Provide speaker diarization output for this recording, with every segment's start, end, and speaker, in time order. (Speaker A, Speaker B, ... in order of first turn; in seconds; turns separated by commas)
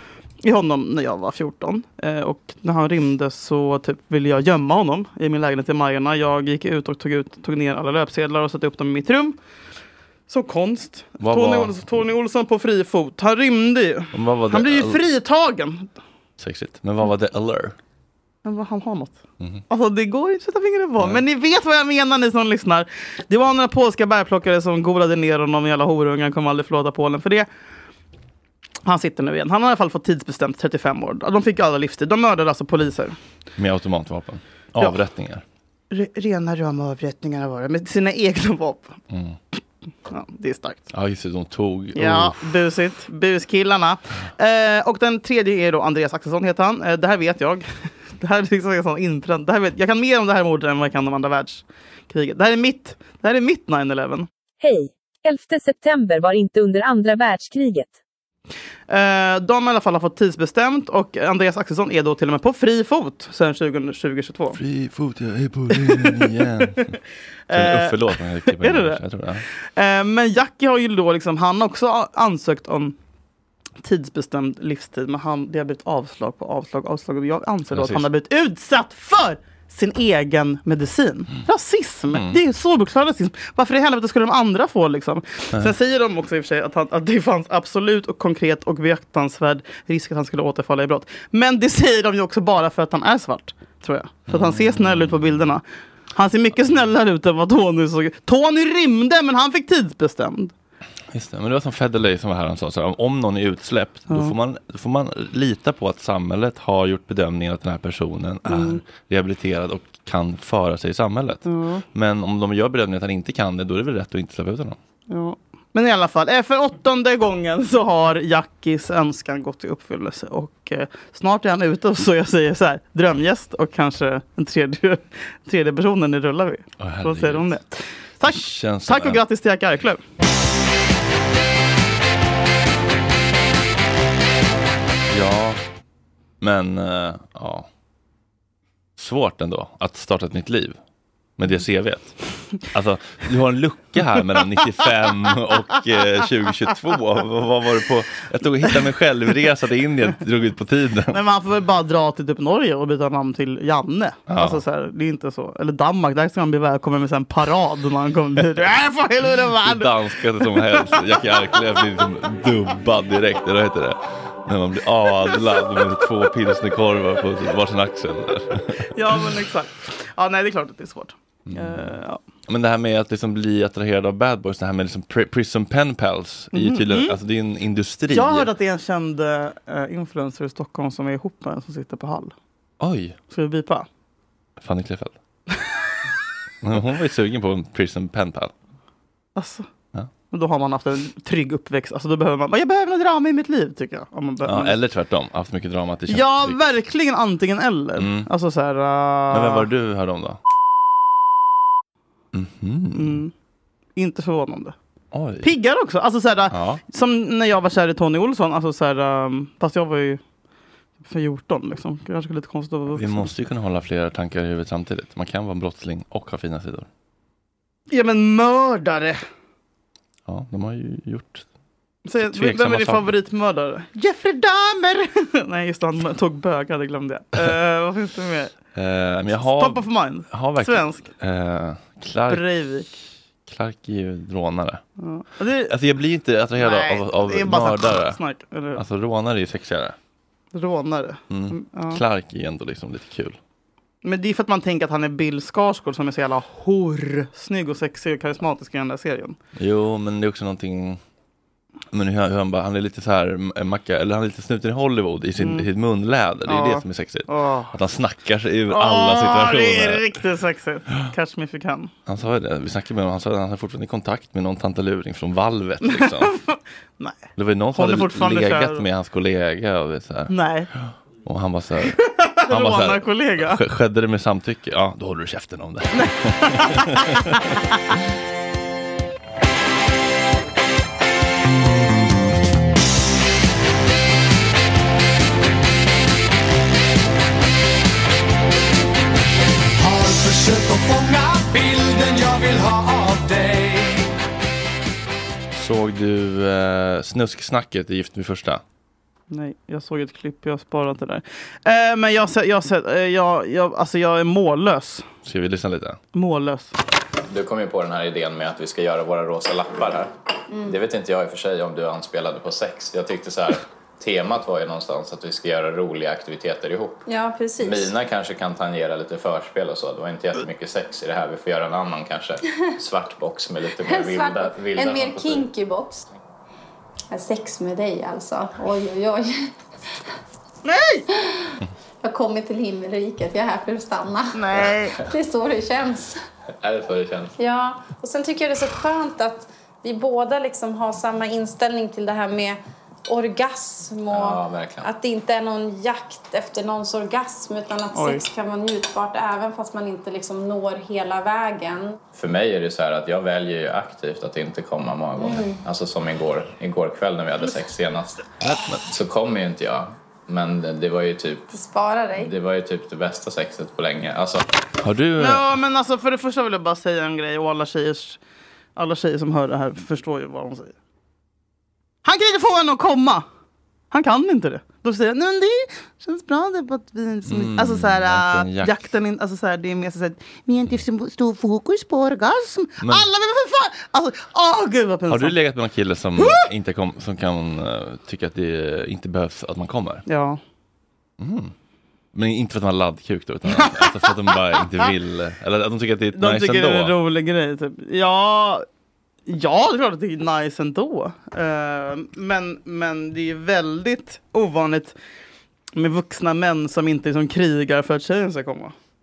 Speaker A: 0.4-9.4, Speaker A: 10.3-15.9, Speaker B: 11.2-12.0, Speaker B: 14.1-15.0, Speaker B: 16.4-17.8, Speaker A: 18.4-19.2, Speaker A: 19.7-27.5, Speaker B: 21.0-21.2, Speaker A: 28.9-33.2, Speaker B: 33.6-35.4, Speaker A: 35.9-39.0, Speaker B: 39.1-39.4, Speaker A: 40.1-40.9, Speaker B: 40.9-42.5, Speaker A: 42.0-54.3, Speaker C: 54.6-58.0, Speaker A: 58.9-64.6, Speaker B: 64.5-66.8, Speaker A: 65.7-67.0, Speaker A: 67.5-73.0, Speaker B: 67.5-69.5, Speaker A: 73.8-100.5, Speaker B: 77.7-78.1, Speaker B: 82.1-82.4, Speaker B: 94.3-95.4, Speaker B: 101.1-114.8, Speaker A: 104.1-104.3, Speaker A: 108.5-108.8, Speaker A: 111.5-111.8, Speaker A: 115.1-130.0, Speaker B: 126.8-127.6, Speaker B: 128.2-129.2, Speaker B: 135.1-135.6, Speaker B: 136.4-137.7, Speaker B: 139.0-140.8, Speaker B: 141.4-151.2, Speaker A: 151.1-161.2, Speaker B: 154.3-154.6, Speaker B: 159.6-168.8, Speaker A: 168.9-172.2, Speaker B: 171.5-171.9, Speaker B: 172.5-178.5, Speaker A: 176.5-177.2, Speaker A: 178.1-182.3, Speaker B: 182.8-183.2, Speaker A: 183.3-183.9, Speaker B: 184.6-185.2, Speaker B: 186.6-188.5, Speaker A: 189.3-189.7, Speaker A: 190.3-194.8, Speaker B: 194.4-196.6, Speaker A: 196.1-199.7, Speaker B: 198.0-198.3, Speaker B: 199.3-200.4, Speaker B: 202.3-203.2, Speaker A: 202.9-203.3, Speaker A: 203.9-204.8, Speaker B: 205.1-205.5, Speaker A: 205.4-210.2, Speaker B: 206.5-206.8, Speaker A: 211.0-213.3, Speaker B: 212.9-216.9, Speaker A: 217.9-219.2, Speaker B: 220.3-221.4, Speaker A: 222.1-228.5, Speaker B: 222.2-223.1, Speaker B: 228.8-232.5, Speaker A: 229.4-231.1, Speaker A: 232.3-233.0, Speaker B: 233.5-234.8, Speaker A: 235.0-235.8, Speaker B: 235.7-238.2, Speaker A: 236.6-238.8, Speaker B: 238.8-240.0, Speaker A: 240.5-242.0, Speaker B: 241.3-243.4, Speaker A: 244.0-249.4, Speaker B: 249.6-251.0, Speaker B: 251.9-260.2, Speaker A: 255.4-255.7, Speaker A: 256.5-257.7, Speaker A: 258.7-261.9, Speaker B: 262.1-266.3, Speaker A: 265.8-268.9, Speaker B: 267.4-270.3, Speaker A: 270.3-270.7, Speaker B: 270.9-277.4, Speaker A: 271.9-273.6, Speaker A: 275.9-277.2, Speaker D: 289.8-294.1, Speaker B: 295.5-298.6, Speaker A: 299.3-305.1, Speaker B: 305.2-306.0, Speaker A: 306.1-306.7, Speaker E: 307.3-310.1, Speaker E: 310.6-317.0, Speaker F: 317.1-317.9, Speaker E: 317.6-325.5, Speaker F: 323.8-326.1, Speaker F: 327.1-329.3, Speaker A: 330.6-331.1, Speaker F: 331.2-331.5, Speaker F: 332.0-334.4, Speaker A: 334.4-335.0, Speaker F: 335.1-336.2, Speaker E: 336.6-337.3, Speaker F: 337.4-351.9, Speaker E: 344.1-344.9, Speaker A: 347.9-348.3, Speaker E: 352.1-358.3, Speaker F: 355.2-355.6, Speaker B: 358.4-358.8, Speaker E: 358.9-361.5, Speaker F: 361.5-362.3, Speaker E: 362.2-364.5, Speaker B: 364.8-365.5, Speaker A: 365.2-368.2, Speaker A: 368.8-370.7, Speaker A: 372.1-373.3, Speaker A: 373.9-385.4, Speaker B: 377.3-378.8, Speaker B: 382.8-383.1, Speaker B: 385.1-390.1, Speaker A: 386.2-386.5, Speaker A: 390.1-390.4, Speaker B: 391.2-391.5, Speaker B: 392.1-396.9, Speaker A: 393.5-394.3, Speaker A: 396.1-398.7, Speaker A: 399.3-405.0, Speaker A: 405.8-408.8